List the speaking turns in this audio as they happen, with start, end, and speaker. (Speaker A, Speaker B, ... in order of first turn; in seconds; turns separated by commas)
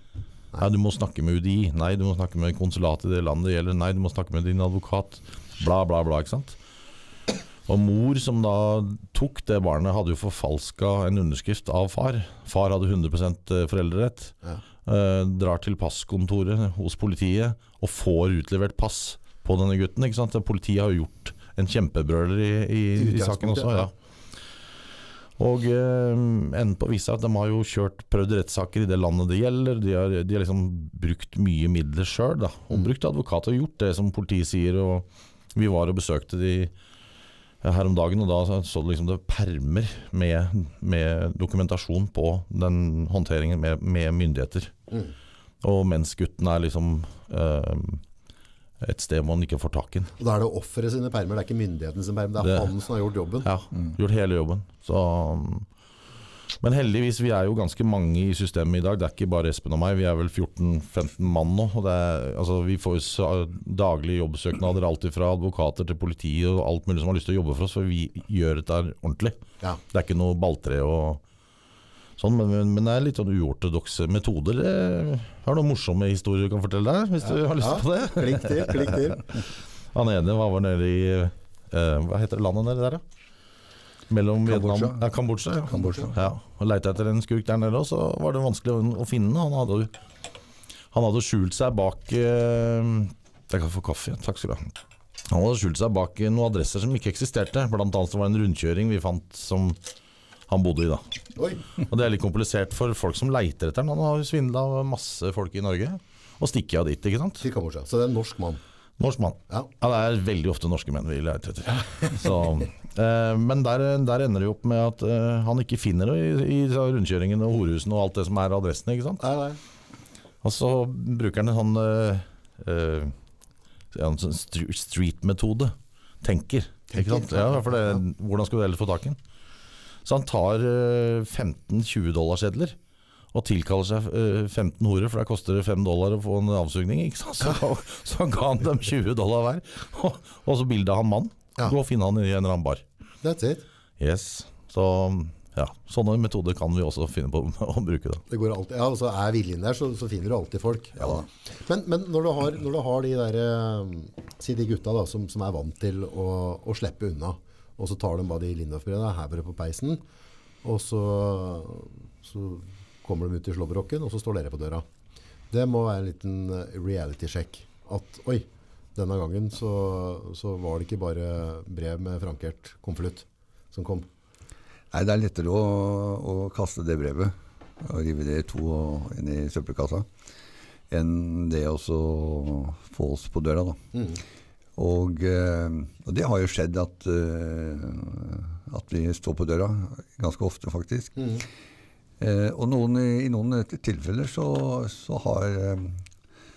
Speaker A: 0.6-6.6, Speaker A: 7.7-23.9, Speaker B: 22.9-23.9, Speaker A: 25.4-36.7, Speaker A: 37.6-44.7, Speaker A: 45.6-48.0, Speaker A: 48.8-50.1, Speaker B: 50.2-53.5, Speaker A: 52.4-52.7, Speaker A: 53.4-55.7, Speaker A: 56.6-71.2, Speaker A: 72.2-79.1, Speaker B: 77.2-79.4, Speaker A: 79.9-83.0, Speaker A: 84.1-89.9, Speaker C: 84.5-85.1, Speaker B: 85.7-86.1, Speaker C: 85.7-86.2, Speaker A: 90.9-94.7, Speaker A: 95.3-99.8, Speaker A: 100.5-101.0, Speaker B: 101.3-101.6, Speaker A: 101.8-107.5, Speaker B: 107.4-108.6, Speaker A: 109.0-119.2, Speaker B: 119.2-119.6, Speaker A: 120.4-123.1, Speaker A: 123.9-129.2, Speaker B: 126.9-128.0, Speaker A: 130.0-132.8, Speaker A: 133.3-142.8, Speaker B: 143.2-143.6, Speaker A: 144.0-148.2, Speaker B: 148.3-160.0, Speaker B: 160.6-164.8, Speaker B: 165.5-174.1, Speaker C: 174.9-180.1, Speaker C: 180.9-183.8, Speaker B: 183.9-184.2, Speaker C: 184.8-191.3, Speaker B: 191.2-191.4, Speaker C: 192.2-196.1